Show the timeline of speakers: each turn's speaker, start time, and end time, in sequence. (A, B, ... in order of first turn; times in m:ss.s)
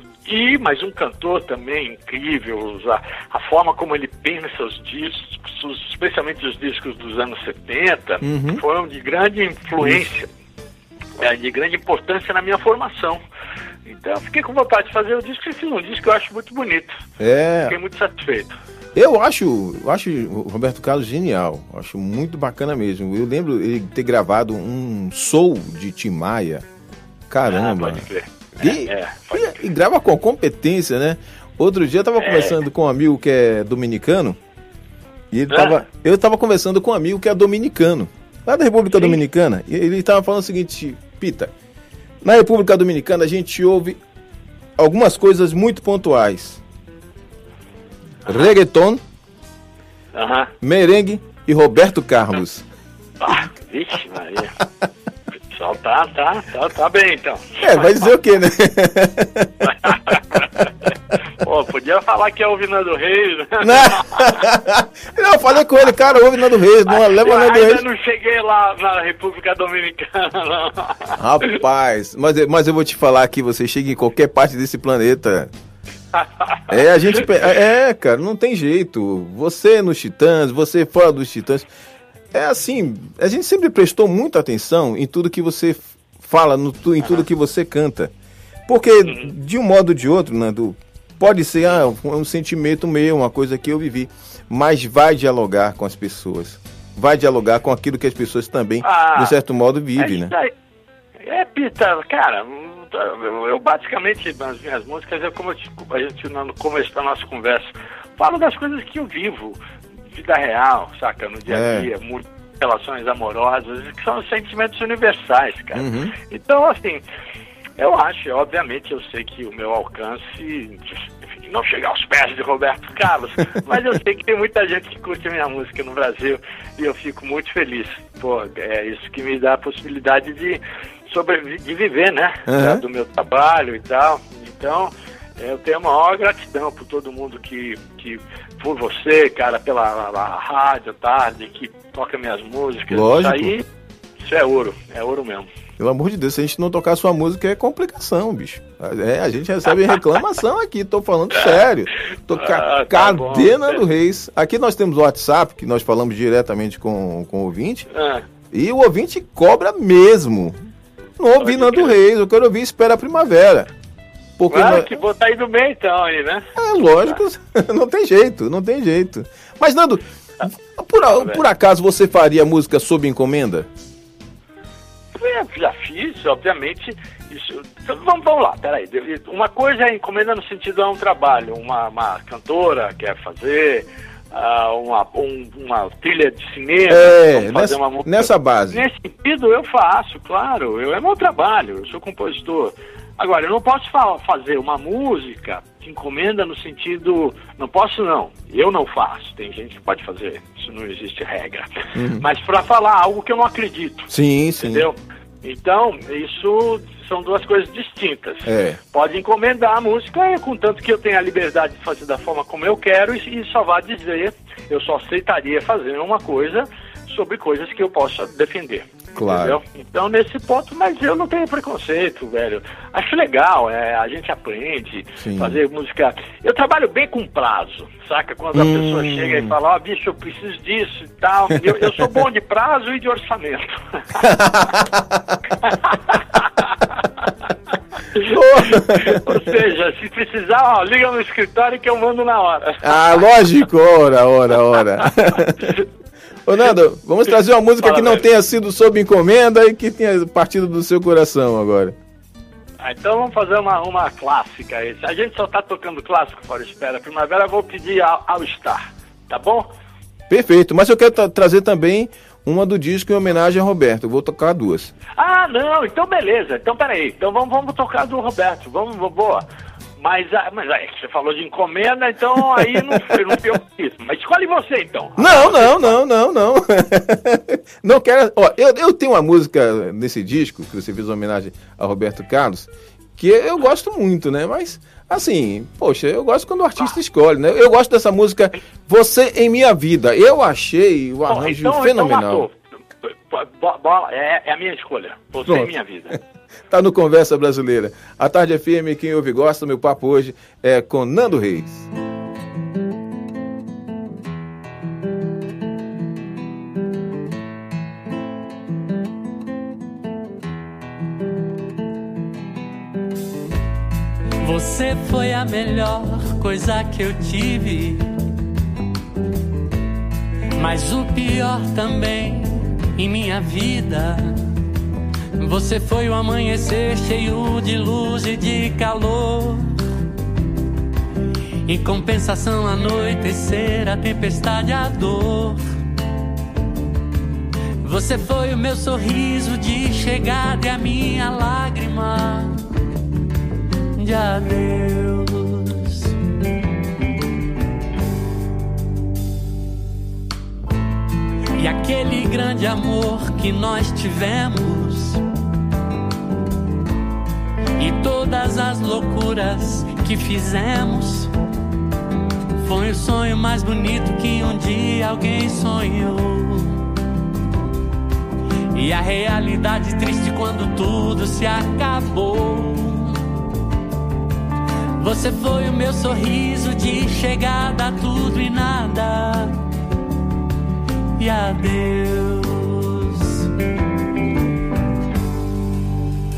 0:00.3-0:10.3 A
0:08.2-0:08.6 B
0:11.2-0:13.2 A
0:13.9-0:17.0 A
0:17.2-0:17.8 B
0:17.7-0:18.5 A
0:19.0-0:26.6 B
0:27.3-0:28.1 B
0:27.5-0:29.6 A
0:28.6-0:34.4 B
0:32.2-0:32.6 A
0:35.3-0:41.5 B
0:35.5-0:35.8 A
0:42.2-0:44.0 B
0:44.8-0:46.6 B
0:48.3-0:49.0 B
0:50.2-0:50.5 A
0:50.6-0:52.7 B
0:53.2-0:54.6 A
0:55.5-0:58.1 A
0:57.6-1:00.4 B
0:59.7-1:00.6 A
1:01.4-1:04.4 A
1:03.6-1:07.8 B
1:06.9-1:11.6 A
1:11.2-1:15.5 B
1:16.2-1:16.6 A
1:16.7-1:21.7 B
1:22.3-1:28.1 B
1:28.7-1:40.3 B
1:38.8-1:39.4 A
1:40.0-1:40.5 A
1:41.2-1:49.6 A
1:50.1-1:57.0 A
1:51.5-1:51.9 B
1:55.7-1:56.1 B
1:57.8-2:23.7 A
2:12.5-2:12.8 B
2:22.9-2:23.6 B
2:24.2-2:25.5 A
2:25.8-2:37.9 B
2:29.7-2:30.0 A
2:31.3-2:31.6 A
2:32.4-2:33.8 A
2:37.9-2:38.2 A
2:38.5-2:40.6 B
2:41.2-2:43.7 B
2:41.4-2:41.9 A
2:44.4-2:44.9 B
2:44.5-2:46.5 A
2:46.6-2:50.0 B
2:50.5-2:53.7 B
2:51.1-2:51.4 A
2:55.2-3:21.7 A
3:06.9-3:08.8 B
3:22.0-3:22.2 B
3:22.2-3:24.1 A
3:24.1-3:24.9 B
3:24.6-3:53.8 A
3:28.4-3:28.8 B
3:39.2-3:39.6 B
3:45.2-3:45.6 B
3:48.5-3:49.5 B
3:51.8-3:52.0 B
3:54.2-3:55.4 B
3:55.7-3:57.0 A
3:58.1-4:03.2 A
3:58.2-3:59.4 B
4:02.8-4:05.8 B
4:05.3-4:05.8 A
4:06.5-4:12.0 B
4:07.8-4:08.2 A
4:12.8-4:19.7 A
4:20.3-4:24.9 B
4:25.2-4:29.4 A
4:30.0-4:36.0 A
4:32.6-4:33.2 B
4:35.2-4:52.5 B
4:51.3-4:56.2 A
4:55.5-4:55.7 B
4:56.7-5:01.9 B
5:14.4-5:18.1 C
5:20.6-5:24.4 C
5:25.4-5:29.8 C
5:31.7-5:35.6 C
5:37.8-5:42.8 C
5:43.9-5:46.2 C
5:51.6-5:55.2 C
5:57.8-6:01.3 C
6:02.6-6:06.8 C
6:08.7-6:13.2 C
6:15.0-6:19.6 C
6:21.2-6:23.5 C